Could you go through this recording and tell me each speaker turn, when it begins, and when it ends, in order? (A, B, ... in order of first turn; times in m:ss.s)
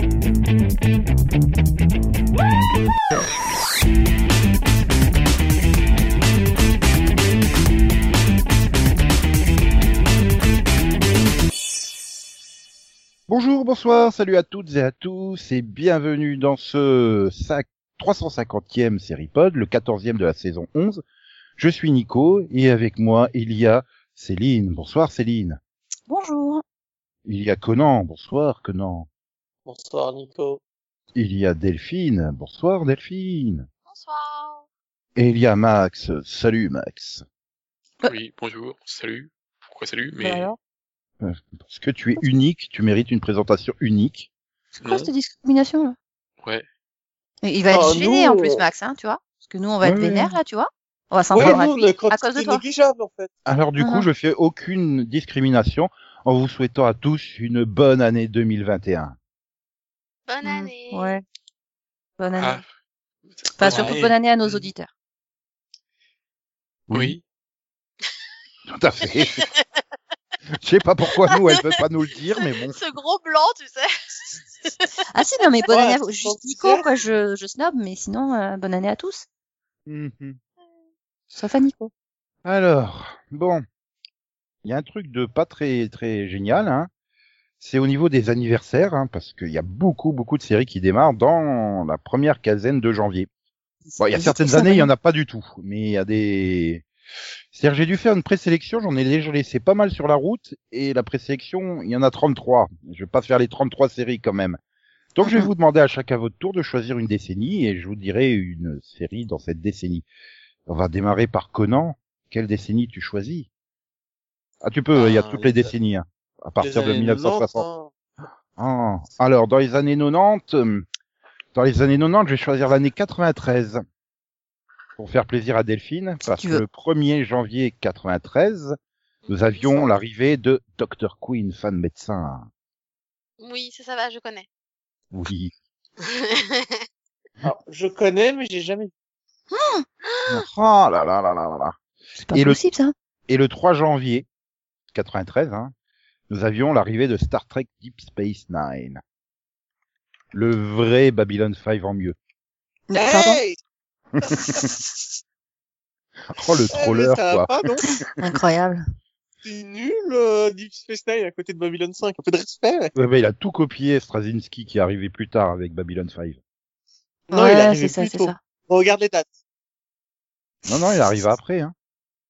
0:13.3-0:21.0 A
0:21.6-0:25.6 A
0:26.1-0:26.6 B
0:27.2-0:29.1 A
0:29.7-0:30.6 C
0:31.2-0:33.7 A
0:33.9-0:34.6 D
0:35.2-0:37.2 A
0:38.1-0:40.5 E
0:40.2-0:40.6 B
0:41.2-0:44.3 A
0:44.8-0:46.0 B
0:44.8-0:45.1 E
0:47.4-0:52.6 B
0:47.7-0:48.6 C
0:49.8-0:50.4 A
0:51.3-0:53.3 C
0:51.4-0:51.6 A
0:53.5-0:59.2 A
0:53.8-0:54.1 B
1:00.3-1:01.2 D
1:00.4-1:01.2 B
1:02.2-1:02.6 B
1:02.4-1:02.6 E
1:03.3-1:04.6 E
1:03.6-1:04.9 B
1:06.9-1:07.2 A
1:06.9-1:07.2 E
1:08.7-1:09.5 A
1:09.3-1:09.6 D
1:10.6-1:12.8 A
1:11.3-1:11.8 D
1:12.4-1:14.9 D
1:15.0-1:19.2 B
1:15.7-1:16.8 C
1:19.9-1:20.4 A
1:21.3-1:21.9 B
1:22.4-1:23.6 A
1:24.6-1:26.9 A
1:27.6-1:33.3 A
1:33.9-1:34.9 B
1:34.0-1:36.8 A
1:37.5-1:44.6 A
1:45.2-1:50.0 A
1:45.2-1:45.5 B
1:50.7-1:53.5 A
1:54.6-1:57.7 A
1:54.9-1:55.8 C
1:56.6-1:57.9 C
1:58.6-2:00.8 A
2:01.5-2:03.8 A
2:05.0-2:08.8 A
2:06.2-2:06.6 B
2:09.3-2:09.9 D
2:09.3-2:12.5 A
2:13.4-2:14.5 D
2:15.1-2:15.5 A
2:16.1-2:16.8 D
2:17.4-2:18.9 C
2:19.5-2:19.8 B
2:20.0-2:20.4 D
2:20.3-2:21.8 A
2:22.2-2:22.9 B
2:22.3-2:22.6 A
2:23.3-2:24.3 A
2:24.9-2:25.7 A
2:26.3-2:29.0 A
2:30.3-2:32.2 A
2:32.9-2:33.4 B
2:33.0-2:33.6 C
2:34.3-2:34.7 A
2:36.3-2:38.2 A
2:36.7-2:37.9 C
2:37.9-2:38.8 B
2:39.4-2:43.0 C
2:43.0-2:46.4 A
2:47.3-2:48.4 B
2:47.3-2:49.3 C
2:50.7-2:51.7 A
2:50.7-2:51.1 B